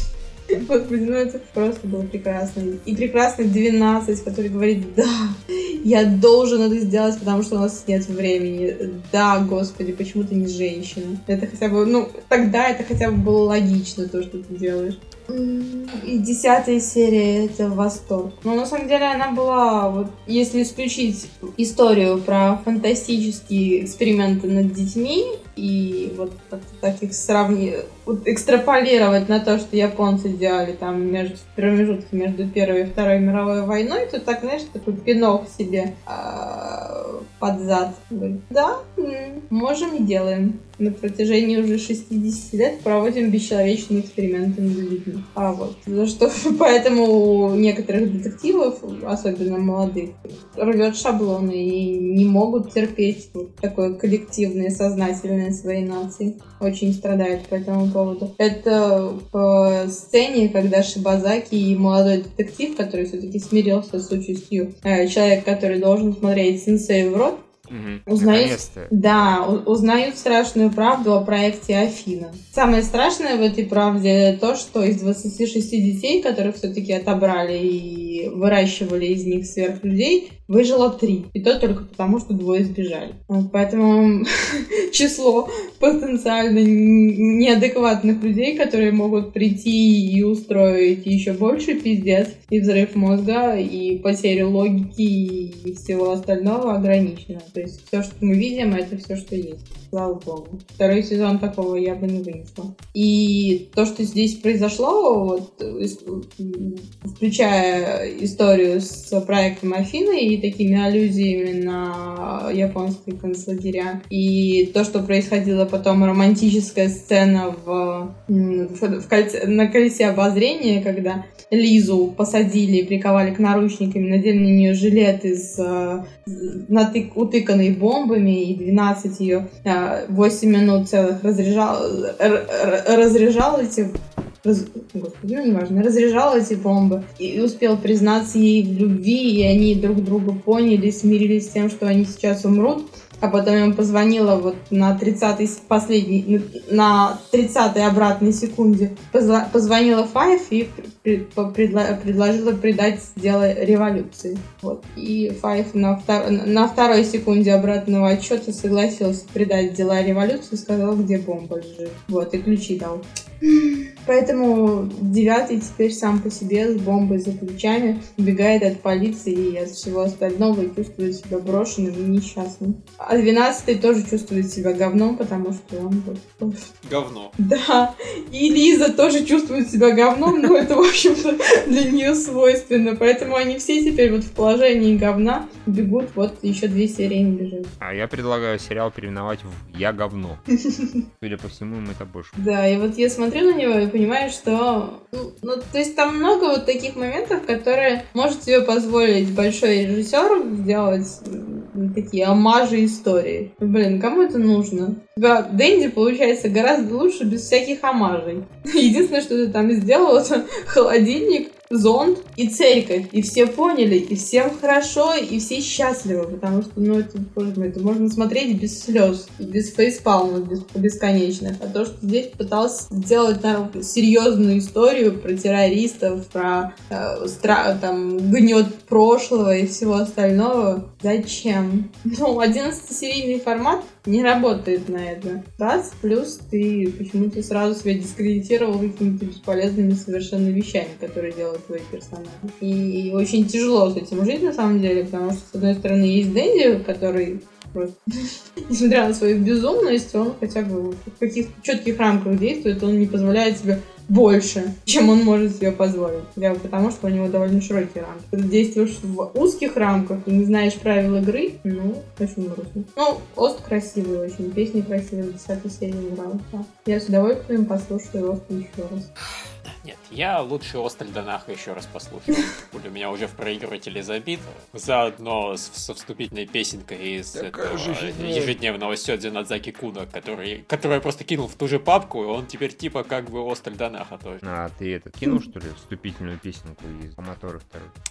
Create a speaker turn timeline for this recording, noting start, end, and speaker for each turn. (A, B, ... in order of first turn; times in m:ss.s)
0:00.5-1:07.4 A
1:07.7-1:09.3 B
1:08.1-2:13.9 A
2:14.4-2:56.6 A
2:56.8-2:57.3 C
2:57.4-3:07.7 A
3:07.8-3:10.4 B
3:10.7-3:11.0 A
3:11.2-3:12.5 B
3:12.4-4:08.0 A
4:08.7-4:29.1 A
4:29.6-4:44.4 C
4:37.3-4:38.5 B
4:44.4-4:47.9 B